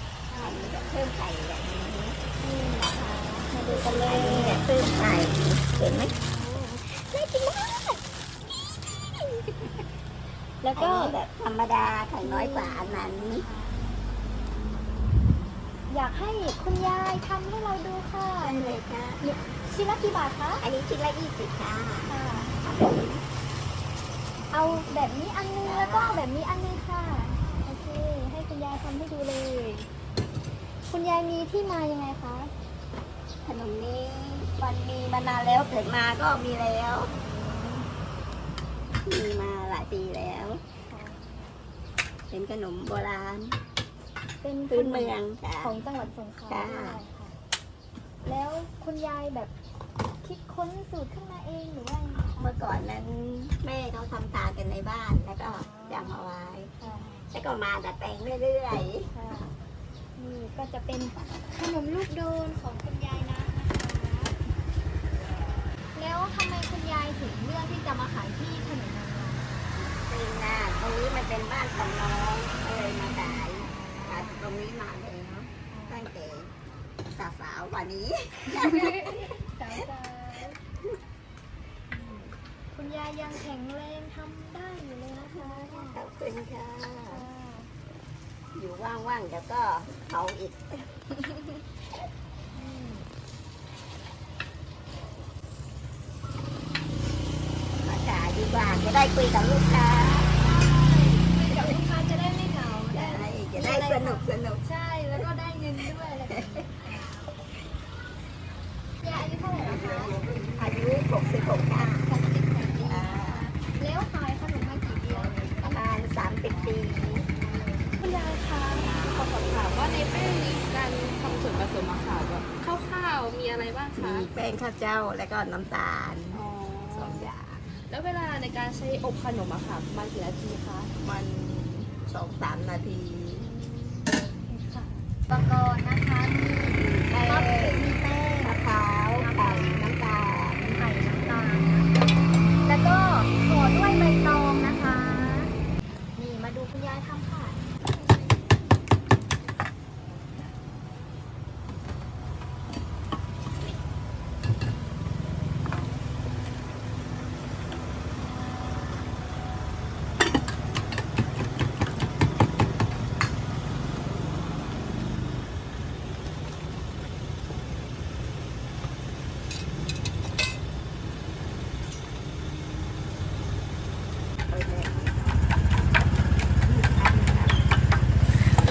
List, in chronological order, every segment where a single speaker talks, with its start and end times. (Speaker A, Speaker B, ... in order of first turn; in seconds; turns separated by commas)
Speaker A: 0.3-0.8, Speaker B: 0.3-2.2, Speaker A: 2.4-4.9, Speaker B: 3.6-6.1, Speaker A: 5.7-9.7, Speaker A: 10.6-11.2, Speaker B: 10.7-13.4, Speaker A: 12.2-13.8, Speaker A: 15.9-20.6, Speaker B: 18.4-19.2, Speaker B: 20.6-23.2, Speaker A: 22.1-22.6, Speaker A: 24.5-29.9, Speaker B: 24.7-25.0, Speaker B: 25.6-26.2, Speaker A: 30.9-32.5, Speaker B: 33.4-37.1, Speaker A: 37.1-37.9, Speaker B: 39.0-40.6, Speaker A: 40.9-41.3, Speaker B: 42.3-43.6, Speaker A: 44.4-47.3, Speaker B: 44.7-45.8, Speaker B: 46.5-47.0, Speaker A: 48.2-49.5, Speaker A: 50.2-52.6, Speaker B: 52.4-59.1, Speaker A: 55.4-56.2, Speaker A: 56.8-57.2, Speaker A: 59.1-59.5, Speaker A: 60.1-64.3, Speaker A: 65.9-69.6, Speaker B: 69.8-76.5, Speaker A: 73.5-74.4, Speaker A: 75.7-76.1, Speaker B: 77.2-79.3, Speaker A: 78.5-80.6, Speaker A: 81.9-86.0, Speaker B: 85.3-87.3, Speaker A: 87.1-87.7, Speaker B: 88.5-90.9, Speaker A: 92.5-93.1, Speaker B: 97.8-100.3, Speaker A: 100.2-107.3, Speaker B: 102.9-104.6, Speaker B: 106.3-106.7, Speaker A: 109.0-110.2, Speaker B: 110.5-112.2, Speaker A: 111.8-117.9, Speaker B: 112.7-113.5, Speaker B: 115.6-117.3, Speaker C: 118.0-124.3, Speaker B: 118.8-119.3, Speaker B: 124.0-127.6, Speaker C: 126.3-127.3, Speaker C: 127.9-130.9, Speaker B: 131.0-133.5, Speaker A: 133.4-140.0, Speaker B: 136.7-137.8, Speaker B: 138.4-140.9, Speaker A: 140.6-141.9, Speaker A: 142.6-145.5, Speaker A: 146.2-147.6, Speaker B: 174.5-175.4, Speaker C: 176.7-177.5, Speaker B: 177.2-177.4